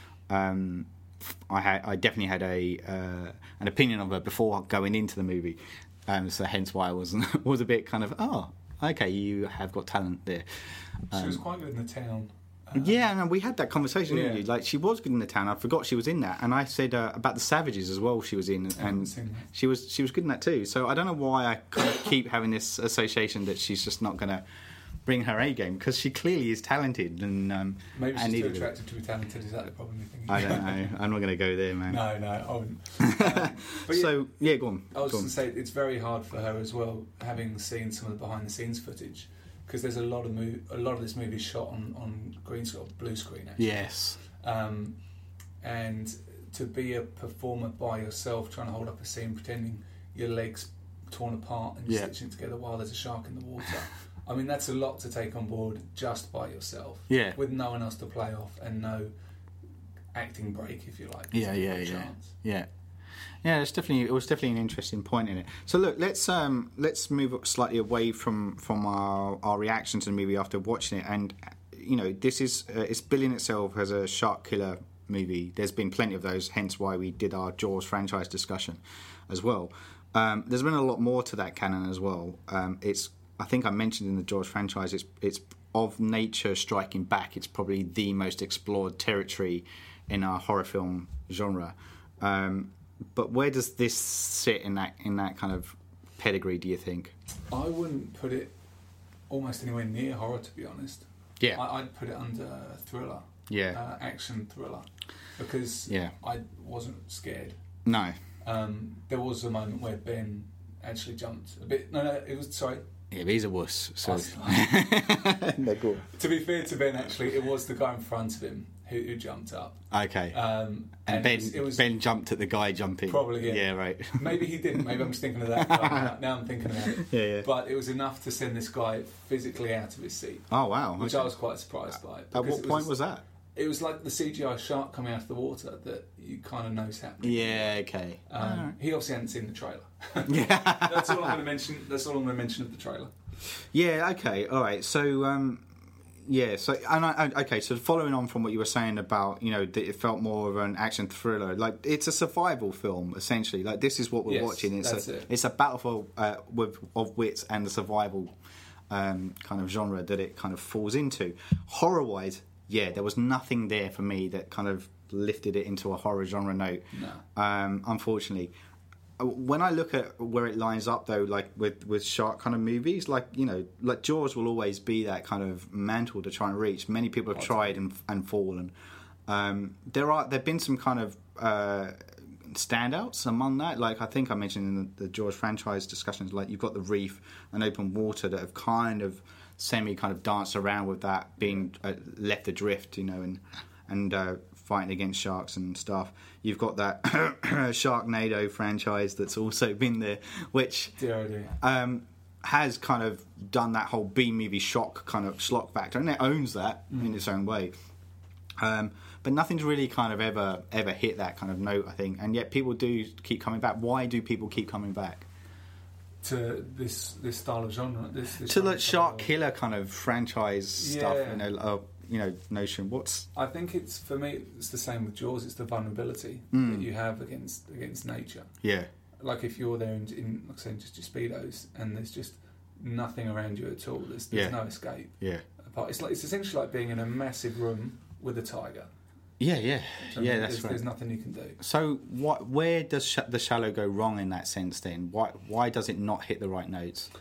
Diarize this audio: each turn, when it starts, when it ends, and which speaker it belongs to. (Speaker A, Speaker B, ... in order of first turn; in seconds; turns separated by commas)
Speaker A: 0.3-10.4, Speaker A: 11.1-11.4, Speaker B: 11.1-13.1, Speaker A: 12.7-24.4, Speaker B: 14.1-14.4, Speaker B: 18.7-19.5, Speaker A: 25.0-28.7, Speaker B: 27.9-30.9, Speaker A: 30.3-32.0, Speaker B: 31.9-34.1, Speaker A: 33.0-35.3, Speaker B: 34.9-45.0, Speaker A: 43.6-44.2, Speaker B: 45.6-59.1, Speaker A: 57.1-57.4, Speaker B: 60.1-62.3, Speaker A: 61.3-62.7, Speaker A: 63.4-97.1, Speaker B: 97.5-98.5, Speaker B: 99.3-107.6, Speaker A: 103.5-103.8, Speaker A: 105.9-106.1, Speaker A: 107.8-108.2, Speaker B: 108.4-112.8, Speaker A: 113.1-116.0, Speaker B: 114.0-115.4, Speaker B: 116.0-121.8, Speaker A: 119.9-120.4, Speaker A: 121.1-124.8, Speaker B: 123.1-132.9, Speaker A: 125.6-126.2, Speaker A: 126.8-127.5, Speaker A: 130.5-131.3, Speaker A: 132.3-133.2, Speaker B: 133.5-137.8, Speaker A: 137.2-138.7, Speaker B: 138.3-143.1, Speaker A: 140.3-141.4, Speaker A: 143.7-145.7, Speaker A: 146.2-158.3, Speaker B: 154.2-155.3, Speaker A: 158.9-168.5, Speaker B: 166.9-167.2, Speaker A: 169.2-178.7, Speaker B: 177.3-177.8, Speaker A: 179.3-201.0, Speaker B: 201.0-201.6, Speaker A: 201.6-207.7, Speaker B: 206.9-207.2, Speaker A: 208.6-215.2, Speaker B: 216.2-219.3, Speaker A: 218.4-223.3, Speaker B: 220.8-221.4, Speaker B: 223.3-228.5, Speaker A: 226.5-226.9, Speaker A: 228.6-228.9, Speaker B: 229.2-238.9, Speaker A: 234.3-234.6, Speaker A: 239.4-240.8, Speaker B: 240.1-241.6, Speaker A: 241.6-247.1